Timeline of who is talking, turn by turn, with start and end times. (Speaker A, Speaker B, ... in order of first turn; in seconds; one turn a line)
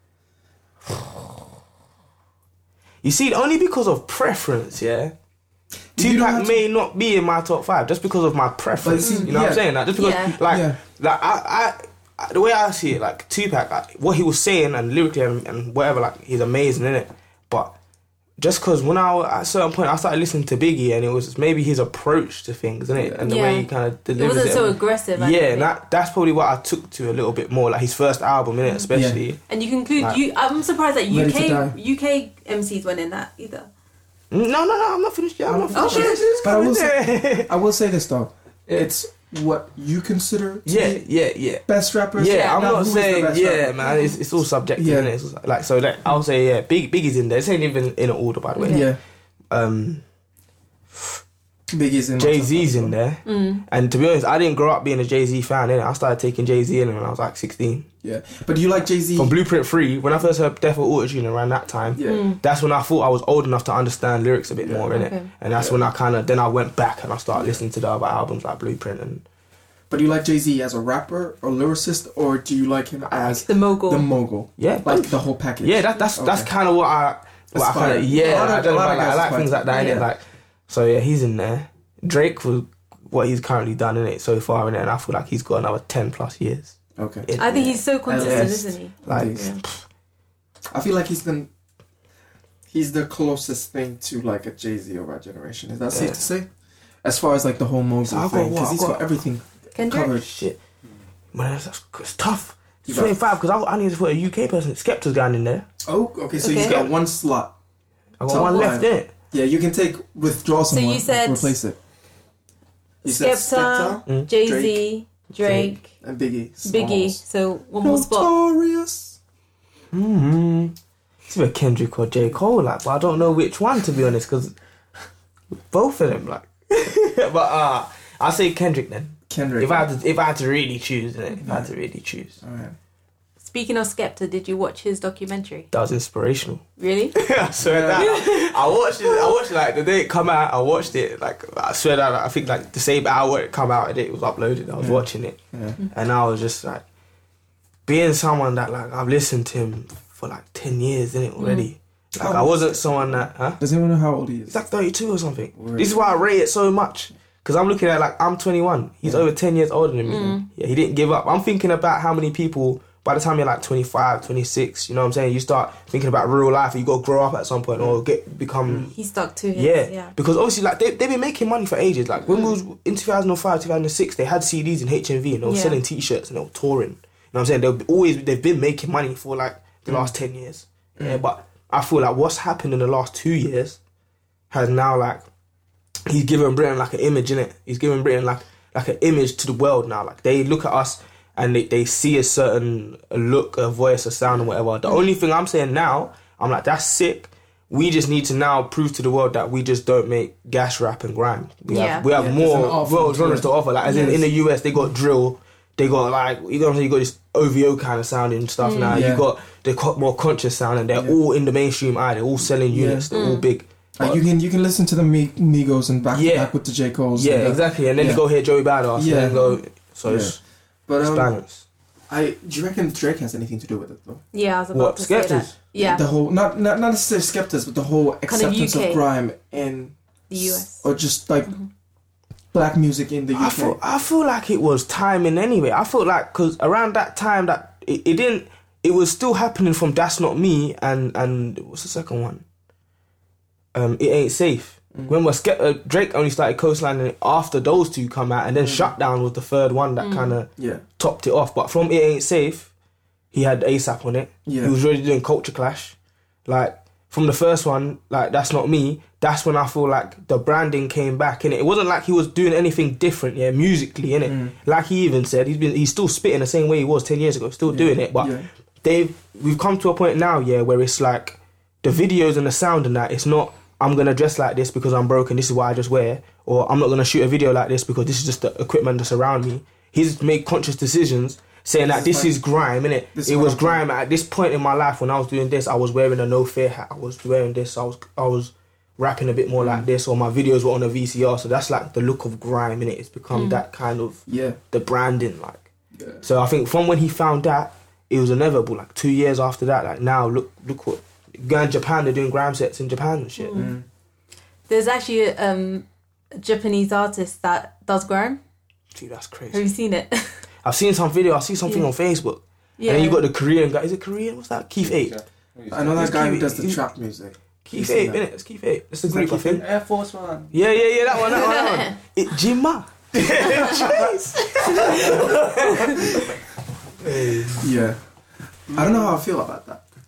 Speaker A: 3.0-5.1
Speaker B: 6.0-6.6
Speaker A: 6.0-17.7
Speaker B: 8.8-9.7
Speaker C: 9.0-9.3
Speaker C: 9.9-10.4
Speaker B: 10.4-10.8
Speaker A: 18.4-29.4
Speaker B: 22.9-23.4
Speaker C: 23.2-25.7
Speaker B: 28.9-29.2
Speaker C: 29.5-33.7
Speaker B: 31.1-31.8
Speaker A: 34.3-37.5
Speaker B: 35.5-41.0
Speaker C: 35.7-36.4
Speaker A: 40.6-48.9
Speaker B: 41.7-43.8
Speaker C: 42.2-42.6
Speaker C: 43.8-44.1
Speaker B: 44.8-45.1
Speaker C: 48.6-48.9
Speaker B: 48.7-49.0
Speaker A: 49.5-50.0
Speaker B: 51.7-53.0
Speaker A: 52.2-57.9
Speaker C: 53.2-53.6
Speaker B: 58.0-59.4
Speaker A: 59.1-69.2
Speaker B: 61.9-62.3
Speaker C: 62.0-62.4
Speaker B: 64.6-64.9
Speaker C: 64.9-65.3
Speaker B: 65.6-65.9
Speaker B: 67.3-67.6
Speaker B: 69.9-76.5
Speaker A: 73.1-73.4
Speaker C: 73.4-74.1
Speaker A: 74.6-89.8
Speaker B: 77.5-80.1
Speaker C: 78.1-78.5
Speaker C: 79.7-80.0
Speaker B: 87.0-87.3
Speaker C: 87.4-89.6
Speaker B: 88.0-89.5
Speaker B: 90.7-91.5
Speaker B: 92.7-96.5
Speaker A: 95.9-96.2
Speaker B: 97.0-100.3
Speaker A: 98.0-99.1
Speaker C: 99.8-100.2
Speaker A: 100.2-100.6
Speaker A: 101.3-105.7
Speaker B: 102.9-103.2
Speaker B: 105.8-107.5
Speaker C: 106.4-106.8
Speaker A: 106.4-106.9
Speaker A: 108.2-109.1
Speaker B: 108.3-111.8
Speaker C: 108.3-108.7
Speaker C: 110.7-111.5
Speaker B: 113.0-114.9
Speaker C: 113.0-115.9
Speaker B: 115.4-117.2
Speaker C: 116.6-118.3
Speaker B: 117.8-119.2
Speaker A: 119.9-120.8
Speaker A: 121.3-124.5
Speaker A: 125.7-132.4
Speaker B: 129.3-129.8
Speaker B: 131.4-131.7
Speaker B: 132.4-132.8
Speaker C: 133.4-135.7
Speaker A: 135.7-145.4
Speaker C: 136.8-137.1
Speaker B: 137.6-138.2
Speaker C: 138.0-139.3
Speaker B: 144.8-145.8
Speaker A: 145.9-146.8
Speaker A: 147.9-153.6
Speaker C: 151.4-151.7
Speaker B: 152.2-154.6
Speaker A: 154.5-168.9
Speaker B: 155.6-155.9
Speaker C: 160.1-160.5
Speaker C: 168.9-170.1
Speaker A: 169.5-183.8
Speaker C: 175.4-175.8
Speaker B: 179.9-180.1
Speaker A: 184.5-185.2
Speaker A: 186.1-214.2
Speaker C: 201.7-202.1
Speaker B: 202.1-204.3
Speaker C: 203.8-204.2
Speaker C: 208.6-209.1
Speaker B: 208.9-209.3
Speaker B: 212.7-213.1
Speaker C: 213.1-213.4
Speaker B: 214.0-218.2
Speaker A: 216.1-216.5
Speaker A: 217.1-220.4
Speaker B: 218.9-219.4
Speaker C: 219.3-219.6
Speaker B: 220.1-221.3
Speaker A: 221.0-221.6
Speaker B: 222.1-224.2
Speaker C: 224.3-226.0
Speaker A: 224.7-225.5
Speaker B: 225.8-231.5
Speaker C: 228.3-229.0
Speaker C: 230.3-230.8
Speaker B: 232.5-233.8
Speaker A: 233.3-242.4
Speaker A: 243.7-252.7
Speaker B: 248.6-248.9
Speaker C: 250.0-250.4
Speaker B: 250.6-250.8
Speaker A: 253.3-295.7
Speaker B: 254.4-254.7
Speaker B: 264.3-264.6
Speaker B: 267.7-268.5
Speaker B: 281.9-282.3
Speaker B: 283.1-283.8
Speaker B: 289.6-289.9
Speaker C: 293.3-293.6
Speaker B: 294.3-294.6
Speaker B: 295.9-296.2
Speaker A: 296.2-303.6
Speaker C: 303.4-303.7
Speaker B: 303.5-303.9
Speaker C: 304.7-308.4
Speaker A: 308.9-309.7
Speaker C: 309.5-310.4
Speaker A: 310.6-315.1
Speaker C: 312.8-313.2
Speaker D: 314.8-316.1
Speaker B: 315.7-318.2
Speaker A: 315.9-316.8
Speaker A: 317.6-319.6
Speaker D: 319.1-321.2
Speaker A: 320.5-326.3
Speaker C: 321.3-321.9
Speaker B: 323.6-324.1
Speaker B: 324.6-325.4
Speaker C: 325.6-326.1
Speaker B: 326.1-326.3
Speaker A: 327.0-327.7
Speaker B: 327.6-328.0
Speaker B: 328.7-329.8
Speaker D: 328.7-329.1